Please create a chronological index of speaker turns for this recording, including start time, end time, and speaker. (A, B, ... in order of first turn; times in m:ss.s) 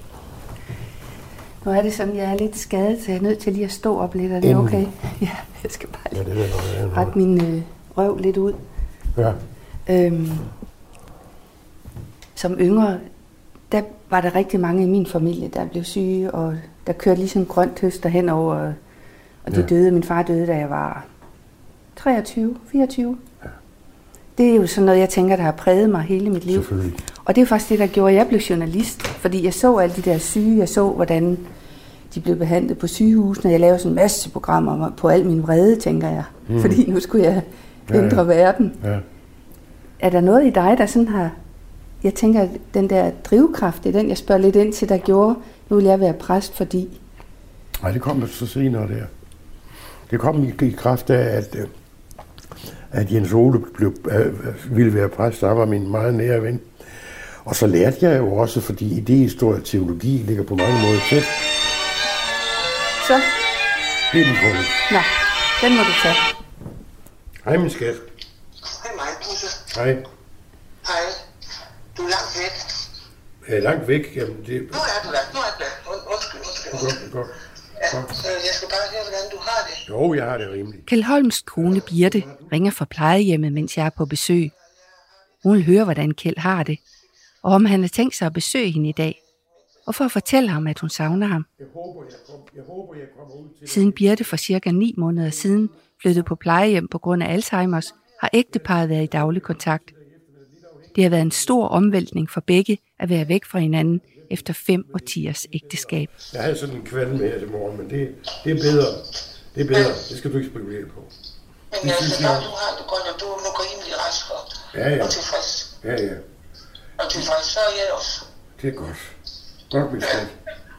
0:01.6-0:06.2 A
0:04.4-0:04.8 B
0:06.1-0:07.1 B
0:06.9-0:08.6 A
0:09.1-0:09.4 B
0:09.9-0:10.5 A
0:12.4-0:13.0 A
0:13.7-0:18.8 A
0:19.4-0:21.1 A
0:22.0-0:23.2 A
0:24.4-0:26.7 A
0:26.5-0:27.0 B
0:27.2-0:31.5 A
0:32.1-0:38.8 A
0:36.5-0:36.8 B
0:37.9-0:38.2 B
0:38.8-0:39.0 B
0:40.0-0:41.4 A
0:42.0-0:47.0 A
0:47.8-0:49.1 B
0:50.1-0:51.7 B
0:52.9-1:01.5 B
1:03.0-1:03.3 A
1:04.1-1:04.8 B
1:04.9-1:06.2 A
1:07.4-1:08.1 B
1:08.6-1:09.7 C
1:09.7-1:10.0 B
1:10.8-1:11.2 C
1:11.9-1:12.9 C
1:13.4-1:14.8 B
1:14.7-1:17.0 C
1:16.7-1:18.2 B
1:18.1-1:19.8 C
1:19.9-1:20.9 B
1:20.9-1:24.5 A
1:21.6-1:22.6 B
1:25.4-1:26.8 A
1:27.4-1:29.2 A
1:29.9-1:31.4 A
1:31.6-1:34.2 B
1:33.7-1:39.9 A
1:40.0-1:41.0 B
1:41.0-1:46.1 A
1:46.1-1:51.1 B
1:51.7-1:55.8 C
1:51.8-1:52.5 B
1:54.7-1:55.2 B
1:55.8-1:56.2 B
1:57.0-1:58.3 C
1:58.6-1:59.1 B
1:59.7-2:00.4 B